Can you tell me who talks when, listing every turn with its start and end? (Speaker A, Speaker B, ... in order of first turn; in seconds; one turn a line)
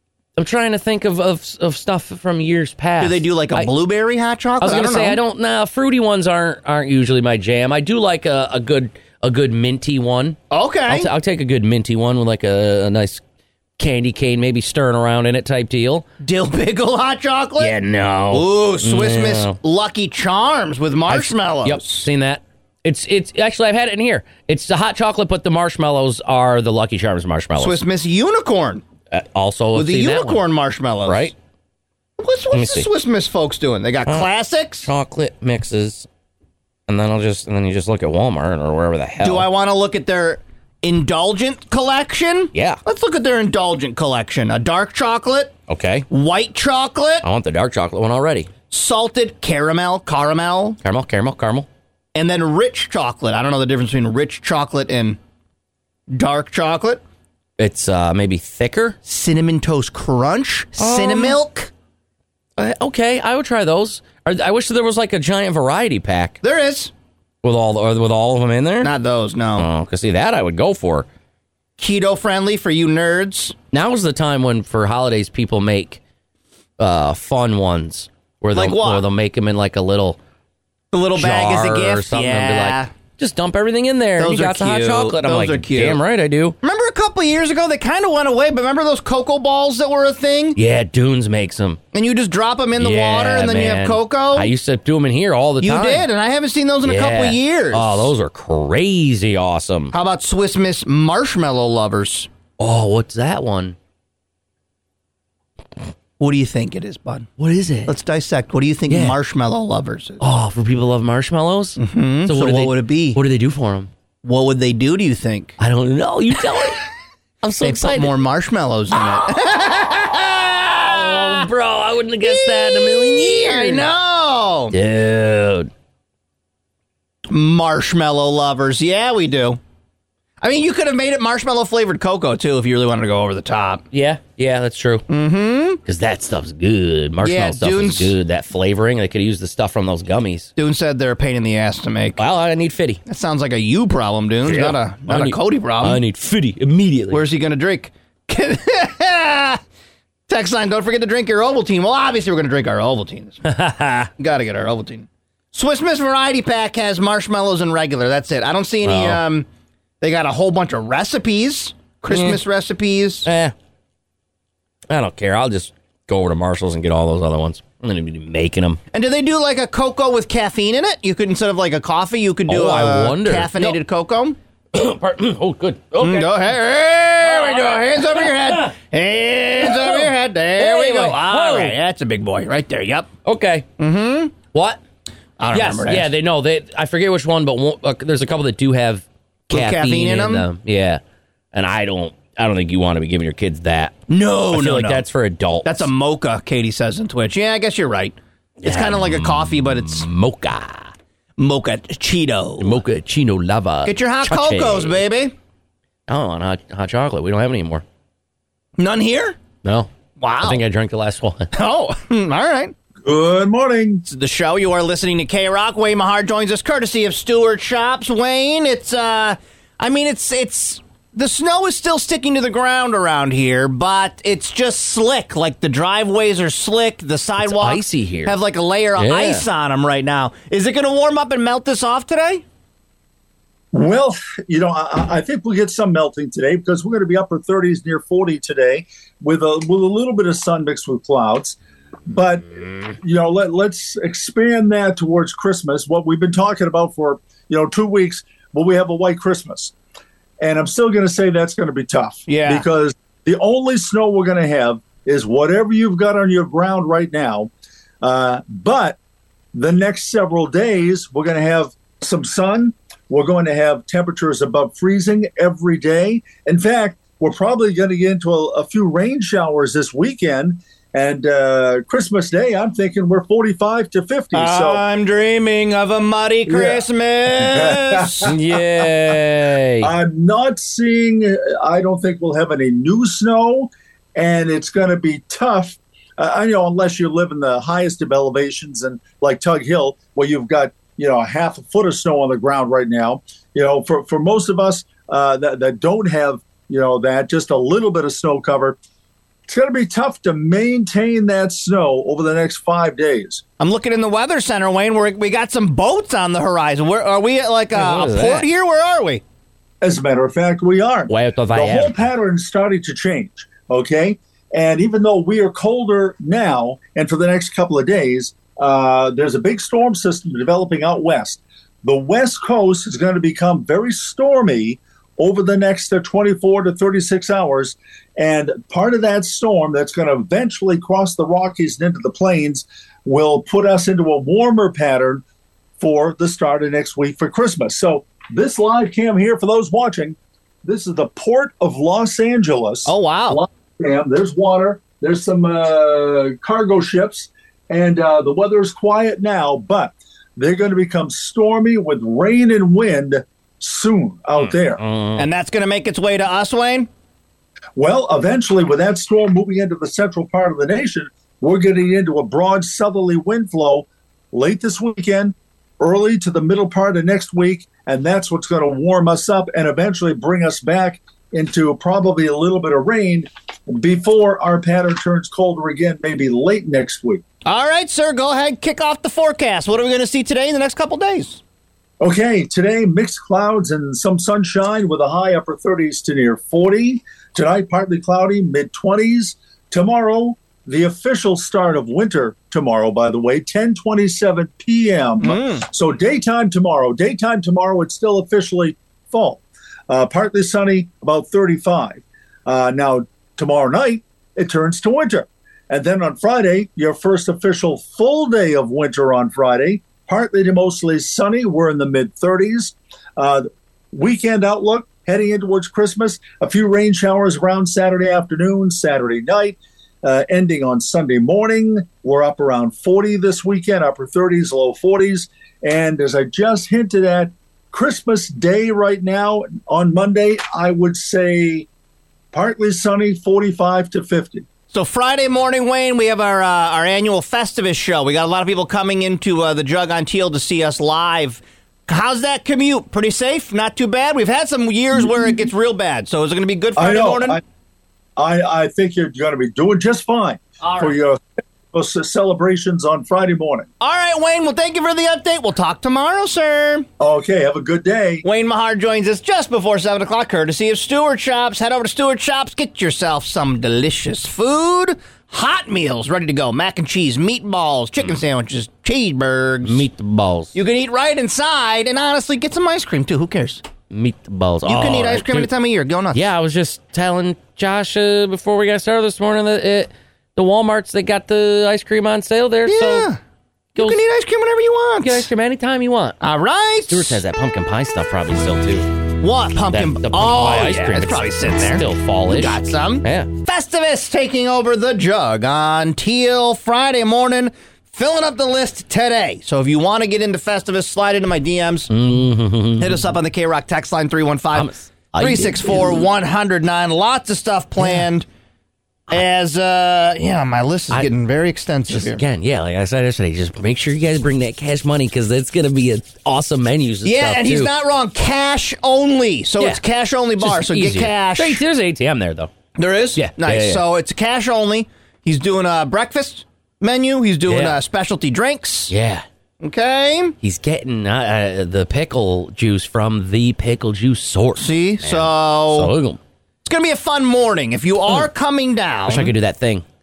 Speaker A: 0.4-3.7
Speaker B: 3.0-5.2
Speaker A: 4.6-13.2
Speaker B: 10.5-11.1
Speaker A: 13.8-16.1
Speaker B: 16.2-17.8
Speaker A: 17.6-19.6
Speaker B: 18.3-22.1
Speaker A: 21.1-27.8
Speaker B: 27.6-28.8
Speaker A: 29.1-30.4
Speaker B: 29.8-31.3
Speaker A: 31.1-31.3
Speaker B: 32.2-34.9
Speaker A: 32.5-32.9
Speaker A: 34.9-36.1
Speaker A: 36.9-39.5
Speaker B: 39.2-45.5
Speaker A: 42.5-42.8
Speaker A: 45.7-46.1
Speaker B: 46.1-47.3
Speaker A: 47.2-48.5
Speaker B: 48.7-50.8
Speaker A: 50.8-51.7
Speaker B: 52.1-55.2
Speaker B: 56.1-57.0
Speaker A: 57.6-59.0
Speaker B: 59.0-61.7
Speaker A: 60.8-61.4
Speaker A: 62.6-66.4
Speaker B: 66.4-66.9
Speaker A: 67.4-68.9
Speaker B: 68.8-69.7
Speaker A: 69.6-71.1
Speaker B: 71.8-73.5
Speaker A: 73.7-76.0
Speaker A: 76.8-80.2
Speaker B: 78.5-79.0
Speaker B: 80.9-82.9
Speaker A: 81.1-86.6
Speaker B: 84.2-86.0
Speaker B: 86.6-90.6
Speaker A: 90.6-91.8
Speaker B: 91.9-94.5
Speaker A: 92.8-96.1
Speaker B: 95.6-98.1
Speaker A: 96.8-99.9
Speaker B: 99.9-102.3
Speaker A: 102.6-103.8
Speaker B: 106.2-107.3
Speaker A: 107.4-107.9
Speaker B: 107.9-110.2
Speaker A: 108.9-109.2
Speaker A: 110.2-113.9
Speaker B: 111.8-113.2
Speaker B: 114.2-115.6
Speaker A: 115.6-116.8
Speaker A: 117.4-118.1
Speaker B: 117.6-121.5
Speaker A: 120.8-123.9
Speaker B: 122.2-124.7
Speaker A: 124.7-125.7
Speaker B: 127.3-129.6
Speaker B: 130.4-133.8
Speaker A: 133.9-135.1
Speaker B: 135.1-135.8
Speaker A: 135.8-140.5
Speaker B: 137.2-138.1
Speaker B: 140.6-142.2
Speaker A: 142.2-143.0
Speaker B: 143.1-146.0
Speaker A: 144.4-147.2
Speaker B: 147.1-149.6
Speaker B: 150.3-153.5
Speaker A: 153.4-154.1
Speaker B: 154.2-159.5
Speaker A: 158.8-159.2
Speaker B: 160.0-163.3
Speaker A: 162.1-162.4
Speaker A: 163.2-163.5
Speaker A: 164.9-168.8
Speaker B: 168.9-174.4
Speaker A: 172.5-173.8
Speaker A: 174.7-176.4
Speaker B: 176.0-183.1
Speaker A: 177.2-178.7
Speaker A: 179.6-181.8
Speaker A: 183.2-183.7
Speaker B: 183.8-184.3
Speaker A: 184.5-184.8
Speaker B: 185.4-186.1
Speaker A: 185.5-191.0
Speaker B: 189.5-190.5
Speaker A: 191.5-194.0
Speaker B: 194.1-195.0
Speaker A: 194.5-195.9
Speaker B: 195.6-200.1
Speaker A: 198.6-200.9
Speaker B: 201.4-202.8
Speaker A: 202.6-205.0
Speaker B: 203.9-205.3
Speaker A: 206.1-207.8
Speaker B: 208.8-209.4
Speaker A: 209.6-209.9
Speaker B: 210.2-210.6
Speaker A: 210.4-211.5
Speaker B: 211.5-212.7
Speaker C: 213.0-214.0
Speaker B: 214.1-232.4
Speaker A: 227.4-228.3
Speaker A: 229.0-229.4
Speaker C: 233.7-241.6
Speaker C: 242.1-249.7
Speaker C: 250.4-257.5
Speaker B: 252.3-252.7
Speaker C: 258.0-259.0
Speaker C: 259.5-274.8
Speaker B: 274.3-278.3
Speaker C: 276.5-278.9
Speaker A: 278.3-279.9
Speaker C: 279.8-298.8
Speaker C: 299.5-303.4
Speaker B: 303.6-309.2
Speaker A: 307.7-308.5
Speaker C: 309.8-335.2
Speaker A: 311.1-312.0
Speaker C: 335.8-354.8
Speaker B: 342.9-343.4
Speaker A: 354.4-355.3
Speaker B: 355.2-356.9
Speaker C: 357.8-377.2
Speaker B: 377.4-381.4
Speaker C: 382.0-431.7
Speaker B: 395.2-395.7
Speaker C: 432.3-434.5
Speaker B: 434.7-447.4
Speaker C: 445.0-445.4
Speaker C: 446.8-447.4
Speaker C: 448.2-453.7
Speaker B: 450.6-450.9
Speaker B: 453.8-456.9
Speaker C: 457.0-458.2
Speaker B: 458.2-469.9
Speaker A: 469.6-470.6
Speaker B: 470.6-473.6
Speaker A: 473.9-475.5
Speaker B: 474.6-476.3
Speaker A: 476.1-483.1
Speaker B: 482.7-483.2
Speaker B: 483.8-485.3
Speaker A: 485.0-486.2
Speaker B: 486.2-487.2
Speaker A: 486.9-488.9
Speaker B: 489.2-501.9
Speaker A: 489.7-493.3
Speaker A: 501.9-503.1
Speaker B: 502.8-508.3
Speaker A: 504.5-506.0
Speaker B: 509.1-512.2
Speaker A: 511.9-517.7
Speaker B: 517.0-521.6
Speaker A: 520.4-522.5
Speaker B: 522.8-528.9
Speaker A: 523.1-523.8
Speaker A: 527.5-527.8
Speaker A: 528.9-529.2
Speaker B: 529.6-530.4
Speaker A: 530.4-536.2
Speaker B: 534.6-535.9
Speaker B: 536.6-539.3
Speaker A: 539.1-539.9